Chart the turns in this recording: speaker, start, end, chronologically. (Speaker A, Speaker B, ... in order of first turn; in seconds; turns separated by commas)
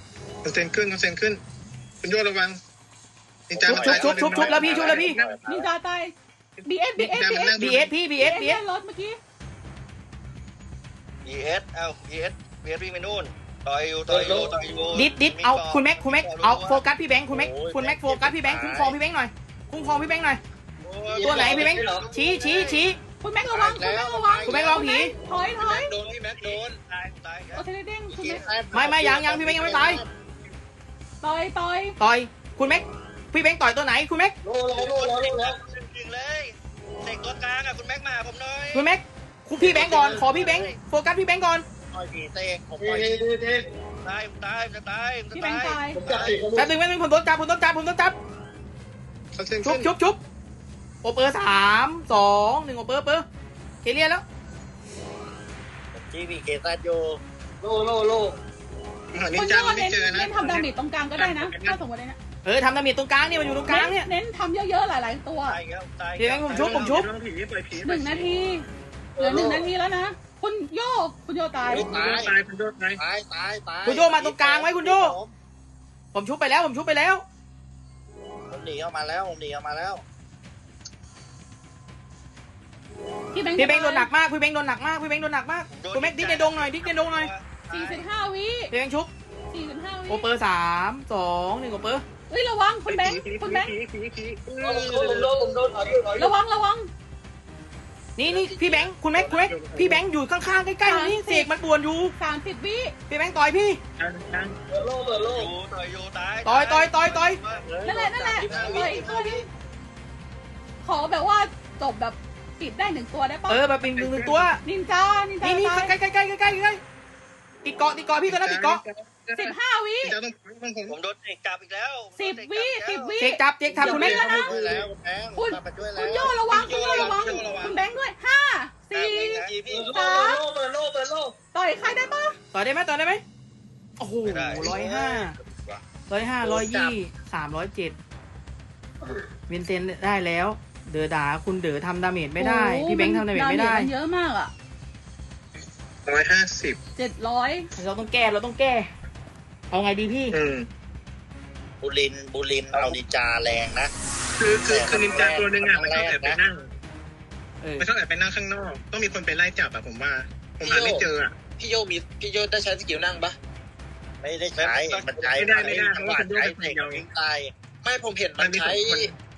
Speaker A: 0.4-1.4, Speaker A: 2.0-2.6, Speaker A: 3.5-5.3, Speaker B: 3.5-5.7, Speaker C: 3.7-5.2, Speaker D: 5.5-6.1, Speaker D: 6.6-9.2, Speaker A: 7.0-7.9, Speaker C: 7.6-8.6, Speaker E: 11.2-16.8, Speaker F: 14.1-14.6, Speaker C: 14.9-20.4, Speaker B: 17.3-18.9, Speaker E: 20.8-22.9, Speaker F: 21.1-22.1, Speaker C: 21.2-23.0, Speaker D: 23.2-25.9, Speaker B: 23.5-24.8, Speaker C: 24.4-25.1, Speaker G: 25.7-26.8, Speaker E: 26.3-27.6, Speaker D: 27.5-28.4, Speaker B: 28.1-30.1, Speaker C: 28.7-30.0, Speaker D: 31.2-32.0, Speaker C: 32.0-34.3, Speaker F: 34.4-35.6, Speaker E: 34.7-38.9, Speaker C: 38.7-41.6, Speaker B: 39.6-40.7, Speaker E: 39.7-40.8, Speaker B: 41.9-43.2, Speaker F: 42.8-43.7, Speaker E: 44.0-46.4, Speaker D: 45.3-46.0, Speaker F: 45.9-46.7, Speaker C: 46.5-48.1, Speaker A: 49.3-49.9, Speaker C: 49.6-50.2, Speaker C: 51.0-53.2, Speaker C: 53.8-54.2, Speaker B: 55.9-57.2, Speaker F: 57.6-58.4, Speaker A: 59.1-61.8, Speaker D: 59.3-62.2, Speaker C: 62.4-64.1, Speaker D: 63.7-65.6, Speaker E: 65.5-67.0, Speaker C: 66.2-67.1, Speaker A: 66.5-68.3, Speaker D: 67.8-68.7, Speaker F: 69.2-69.7, Speaker D: 69.2-71.9, Speaker B: 71.7-72.3, Speaker A: 71.7-73.0, Speaker B: 73.0-75.3, Speaker C: 73.8-75.1, Speaker C: 76.1-77.2, Speaker B: 78.5-80.0, Speaker D: 83.3-84.1, Speaker C: 83.6-87.3, Speaker E: 85.7-88.0, Speaker D: 87.7-88.7, Speaker C: 88.7-89.1, Speaker D: 89.5-90.3, Speaker C: 90.1-92.0, Speaker D: 92.3-93.7, Speaker A: 92.9-95.2, Speaker F: 94.6-96.3, Speaker D: 96.2-96.9, Speaker C: 98.2-102.1, Speaker A: 99.1-100.0, Speaker D: 100.8-101.5, Speaker D: 102.2-102.9, Speaker C: 103.1-103.8, Speaker A: 104.0-104.6, Speaker F: 104.7-105.5, Speaker E: 105.3-107.7, Speaker C: 106.5-107.4, Speaker B: 107.6-109.5, Speaker D: 107.8-109.4, Speaker A: 108.5-109.1, Speaker D: 110.8-113.6, Speaker C: 113.5-114.6, Speaker A: 113.8-114.5, Speaker D: 114.6-115.9, Speaker C: 115.4-116.8, Speaker C: 117.6-118.8, Speaker A: 118.2-121.0, Speaker D: 119.3-120.2, Speaker E: 120.9-123.2, Speaker D: 122.2-124.5, Speaker C: 123.2-124.5, Speaker F: 123.7-124.9, Speaker B: 124.3-126.4, Speaker D: 125.3-130.4, Speaker G: 126.4-127.8, Speaker A: 127.0-127.3, Speaker E: 128.9-129.6, Speaker G: 129.4-129.9, Speaker F: 129.7-131.3, Speaker D: 131.5-132.4, Speaker C: 132.5-133.2, Speaker C: 134.0-135.3, Speaker E: 134.2-135.8, Speaker B: 134.6-135.2, Speaker C: 136.1-137.9, Speaker B: 136.4-137.0, Speaker C: 139.5-143.9, Speaker D: 142.4-144.5, Speaker A: 146.0-146.8, Speaker D: 147.0-147.7, Speaker C: 147.8-148.9, Speaker C: 149.7-150.3, Speaker A: 150.3-150.7, Speaker B: 151.8-153.9, Speaker A: 154.4-156.7, Speaker B: 154.7-156.4, Speaker C: 157.6-157.9, Speaker A: 157.8-161.3, Speaker G: 160.6-163.3, Speaker B: 164.2-167.5, Speaker E: 164.6-165.6, Speaker A: 165.3-167.0, Speaker G: 167.8-169.1, Speaker A: 168.4-169.1